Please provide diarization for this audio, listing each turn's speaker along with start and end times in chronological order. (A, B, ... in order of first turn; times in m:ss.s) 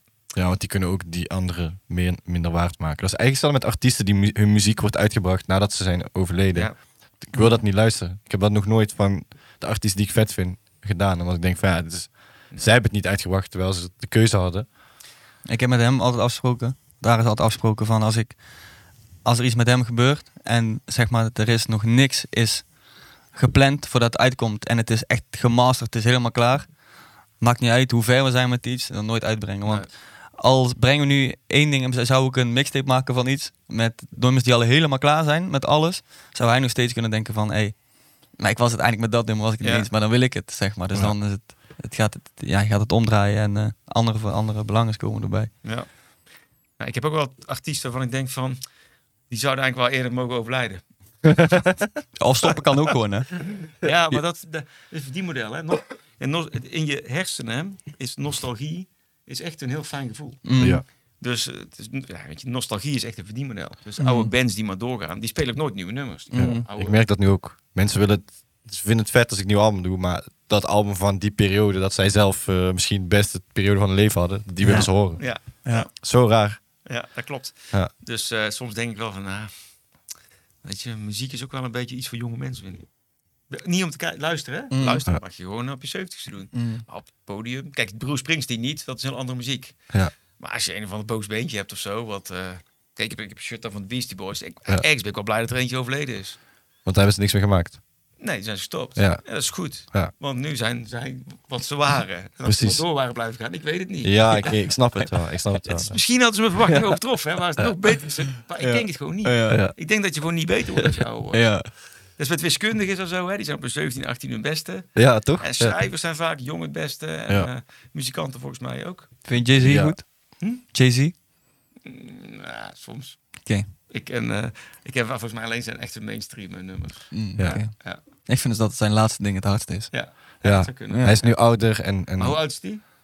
0:00.3-0:14.7 A
0:06.5-0:06.8 B
0:07.3-0:07.6 C
0:15.4-0:45.5 C
0:29.7-0:29.9 B
0:39.6-0:39.9 B
0:45.6-0:46.1 B
0:46.8-0:48.6 B
0:49.3-0:51.6 B
0:52.2-0:53.5 C
0:53.6-1:00.6 B
1:00.4-1:00.8 C
1:00.6-1:00.8 A
1:01.2-1:07.0 B
1:04.0-1:04.3 C
1:06.3-1:06.6 C
1:06.4-1:16.8 A
1:14.6-1:15.9 C
1:14.7-1:19.5 B
1:20.6-1:22.9 B
1:23.5-1:36.4 B
1:24.7-1:25.0 C
1:26.5-1:26.8 C
1:36.8-1:37.8 A
1:38.2-1:44.6 B
1:39.0-1:40.1 A
1:42.4-1:42.8 A
1:44.0-1:46.0 A
1:45.7-1:59.4 B
1:46.7-1:47.0 C
1:48.5-1:49.7 C
1:49.5-1:49.8 A
1:51.3-1:51.7 C
1:55.0-1:55.8 A
1:59.3-2:01.1 C
1:59.6-2:00.0 A
2:00.4-2:00.6 B
2:01.8-2:08.0 B
2:07.1-2:09.9 C
2:09.9-2:12.8 B
2:10.4-2:12.4 A
2:10.9-2:11.2 C